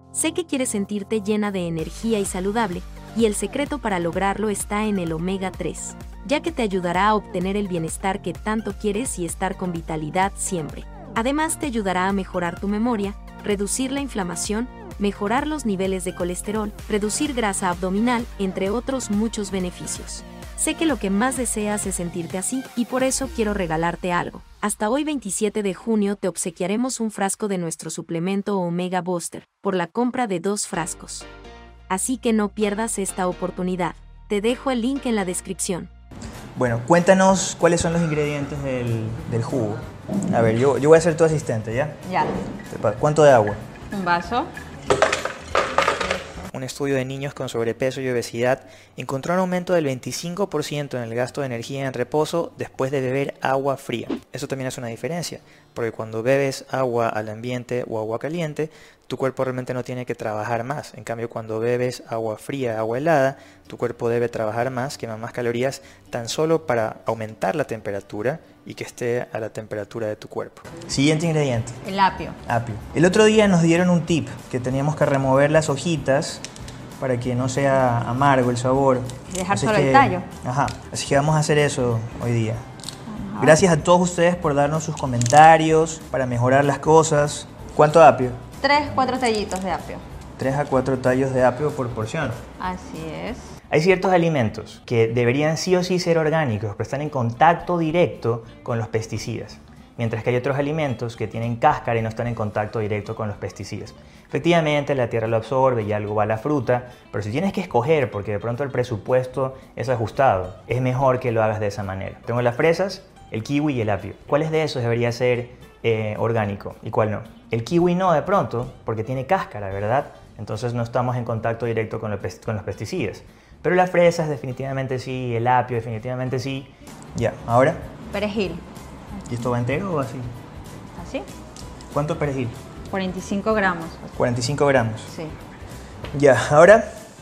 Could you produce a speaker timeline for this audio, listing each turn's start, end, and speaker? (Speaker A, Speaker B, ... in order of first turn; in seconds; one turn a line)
Speaker A: 0.1-31.3
Speaker A: 31.9-35.9
Speaker B: 36.5-42.0
Speaker C: 42.0-42.4
Speaker B: 42.7-43.6
Speaker C: 43.9-44.5
Speaker B: 46.5-71.8
Speaker C: 71.8-72.4
Speaker B: 72.4-76.4
Speaker B: 77.0-82.6
Speaker C: 79.3-80.2
Speaker C: 83.1-83.6
Speaker B: 83.4-88.4
Speaker C: 88.6-90.0
Speaker B: 90.4-92.4
Speaker C: 92.6-93.5
Speaker B: 93.7-127.8
Speaker C: 128.1-128.6
Speaker B: 129.3-130.3
Speaker C: 130.9-131.2
Speaker B: 131.9-132.6
Speaker C: 132.9-134.1
Speaker B: 134.1-135.1
Speaker B: 136.1-136.8